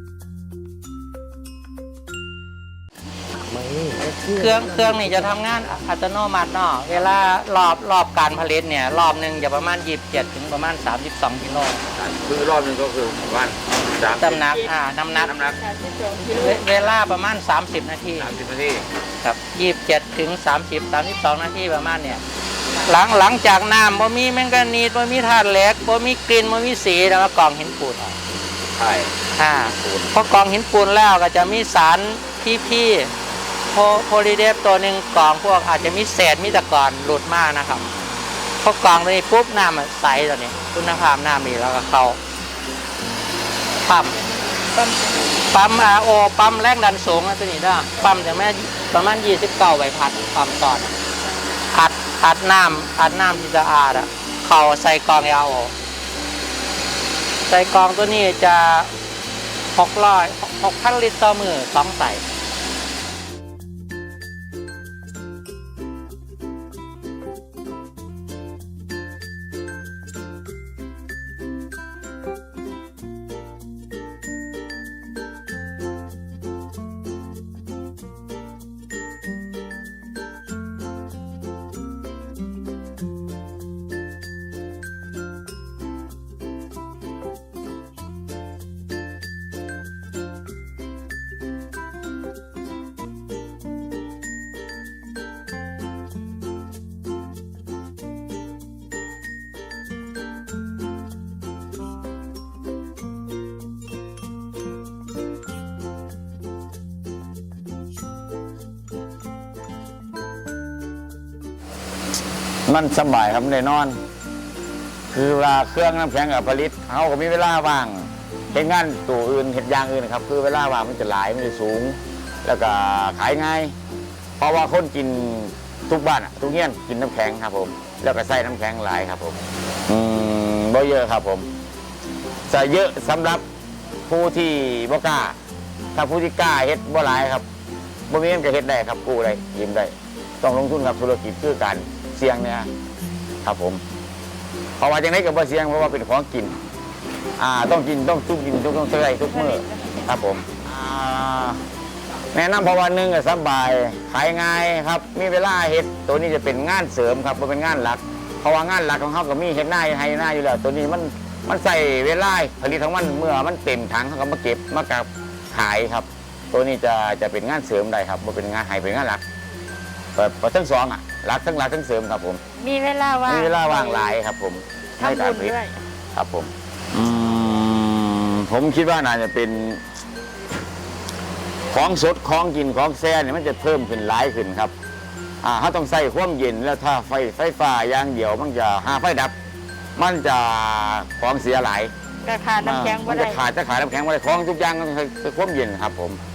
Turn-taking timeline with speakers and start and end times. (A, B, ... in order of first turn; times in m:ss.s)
0:03.9-0:11.8 A
0:11.9-0:14.6 B
0:14.1-0:15.3 A
0:15.2-0:15.7 B
0:16.2-0:18.3 A
0:18.2-0:18.8 B
0:19.2-0:22.2 A
0:22.8-0:28.1 A
0:28.8-0:29.1 B
0:29.4-0:33.1 A
0:29.8-0:30.1 B
0:33.7-0:37.8 A
0:38.6-0:42.2 A
0:43.8-0:44.2 A
0:45.5-0:50.9 A
0:51.7-0:55.7 A
0:57.5-0:58.9 A
0:59.7-1:02.2 A
1:52.7-1:54.0 B
1:55.1-2:03.7 B
2:04.4-2:09.4 B
2:09.9-2:11.5 B
2:12.5-2:13.4 B
2:14.1-2:15.4 B
2:15.9-2:17.4 B
2:18.1-2:22.7 B
2:23.4-2:23.8 B
2:24.8-2:26.6 B
2:27.4-2:31.6 B
2:32.3-2:49.2 B
2:50.1-2:52.4 B
2:52.6-2:54.2 C
2:53.3-2:55.6 B
2:55.0-2:55.8 C
2:56.1-2:59.8 B
3:01.7-3:04.7 B
3:05.4-3:09.3 B
3:10.0-3:11.9 B
3:12.2-3:13.4 C
3:12.6-3:16.2 B